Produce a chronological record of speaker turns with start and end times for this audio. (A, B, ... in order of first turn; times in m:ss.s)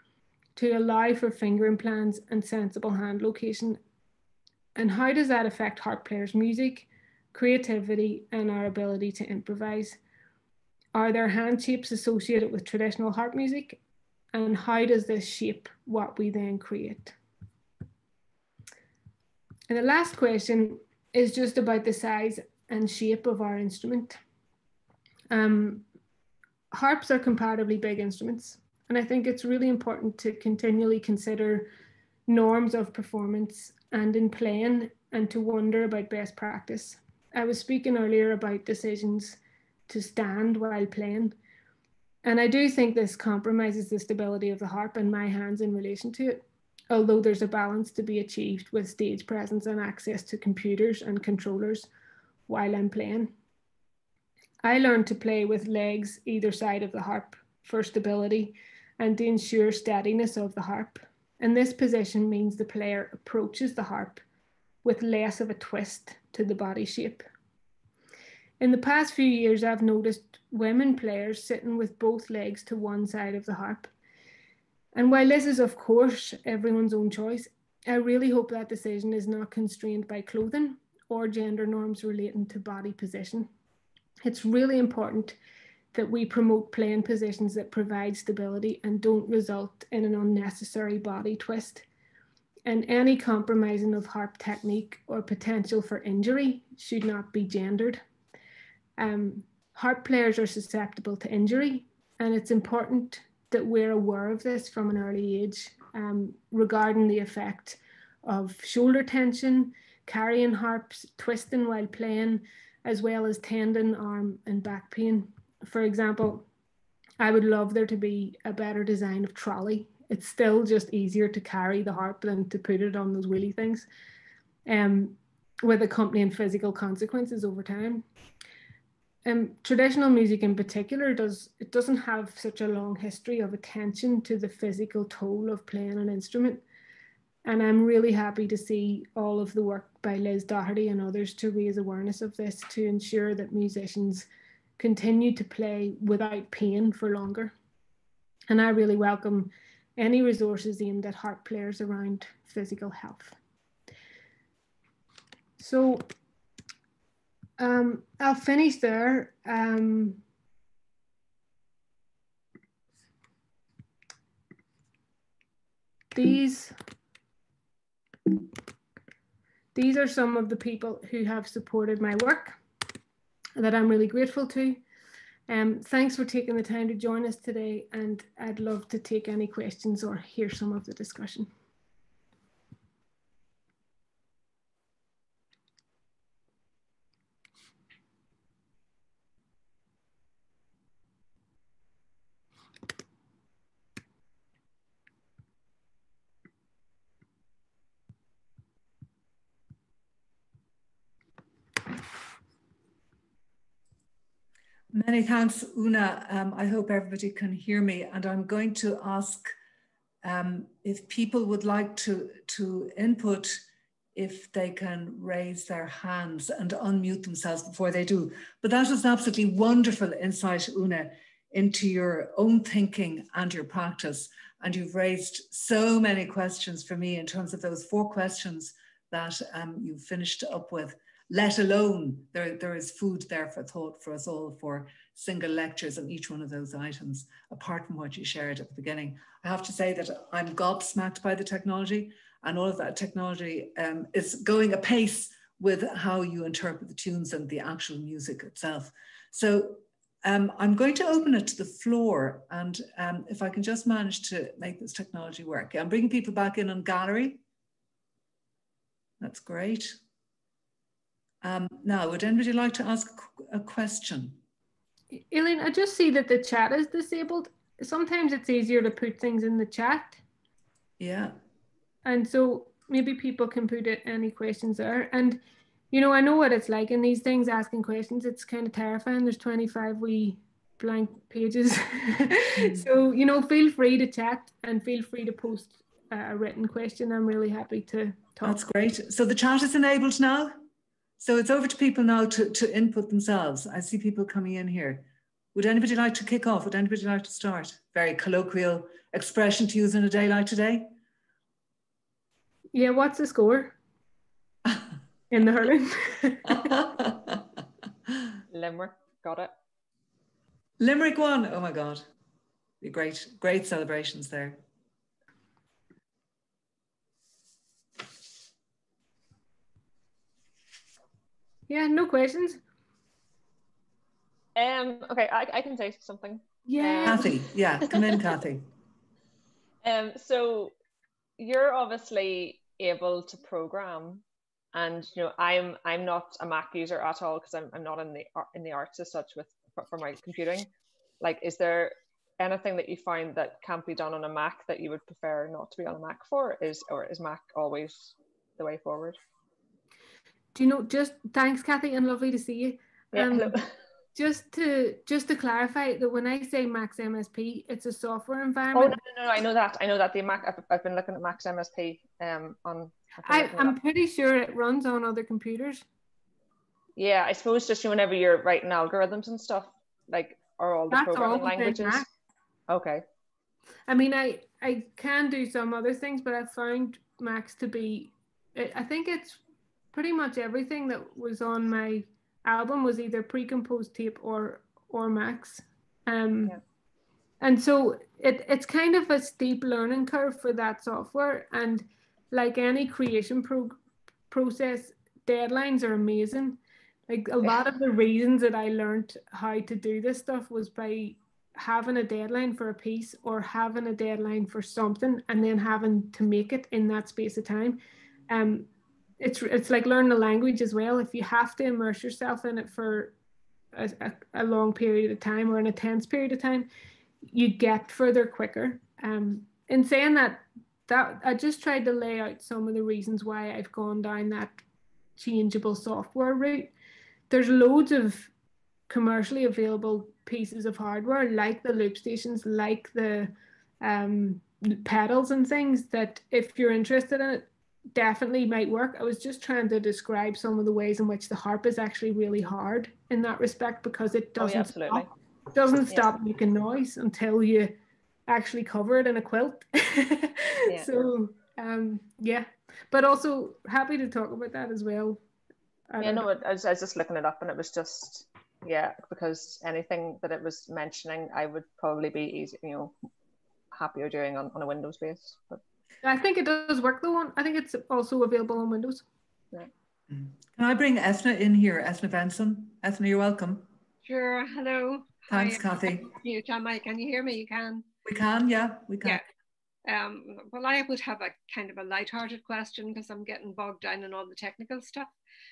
0:00.6-0:03.8 A
0:04.8-0:10.0 A
0:10.9-0:13.8 A
0:14.3-0:17.2 A
0:19.7-0:24.2 A
0:25.3-0:25.8 A
0:26.7-0:31.7 A
0:32.3-0:41.4 A
0:42.2-0:51.9 A
0:52.5-0:53.3 A
0:54.6-1:04.2 A
1:04.8-1:07.2 A
1:08.6-1:13.9 A
1:14.9-1:23.5 A
1:24.2-1:25.4 A
1:25.9-1:31.8 A
1:32.6-1:38.0 A
1:39.0-1:56.4 A
1:57.2-2:03.9 A
2:04.6-2:08.0 A
2:09.2-2:16.6 A
2:17.4-2:24.3 A
2:24.8-2:27.5 A
2:28.5-2:33.4 A
2:35.6-2:36.0 A
2:37.6-2:40.2 A
2:46.1-2:46.7 A
2:49.7-2:52.6 A
2:53.6-2:54.8 A
2:55.5-3:01.5 A
3:24.9-3:29.5 B
3:30.2-4:17.4 B
4:19.2-4:20.0 B
4:21.4-4:24.4 B
4:25.1-4:30.2 A
4:31.0-4:31.4 B
4:32.0-4:35.4 A
4:35.9-4:48.6 A
4:42.6-4:42.9 B
4:48.4-4:50.6 B
4:51.2-5:00.9 B
5:02.7-5:03.8 A
5:05.3-5:06.8 A
5:08.5-5:09.5 C
5:10.8-5:12.0 B
5:12.8-5:14.6 B
5:21.7-5:22.6 A
5:24.6-5:27.3 C
5:26.6-5:27.3 A
5:27.0-5:28.7 B
5:27.9-5:28.2 C
5:29.8-5:30.7 C
5:31.4-5:40.7 C
5:41.2-5:49.2 C
5:50.5-5:53.5 A
5:53.1-5:53.7 C
5:54.1-5:59.0 A
5:58.7-6:03.8 C
6:03.2-6:05.8 A
6:07.0-6:12.0 C
6:10.9-6:12.1 A
6:12.7-6:13.0 C
6:13.9-6:19.4 A
6:19.9-6:26.6 A
6:27.4-6:33.8 A
6:34.3-6:47.8 A
6:48.3-6:48.7 A
6:49.2-6:53.1 A
6:53.7-6:56.7 A
6:57.2-7:04.6 A
7:05.2-7:06.7 A
7:07.3-7:08.3 A
7:08.9-7:27.7 A
7:24.4-7:25.1 C
7:28.3-7:35.2 A
7:30.7-7:30.9 C
7:35.9-7:36.2 A
7:36.0-7:43.0 C
7:43.7-7:45.6 C
7:46.0-7:49.0 A
7:50.1-7:53.7 B
7:54.0-7:57.8 D
7:55.3-7:56.0 B
7:58.0-7:59.2 B
7:59.8-8:05.1 D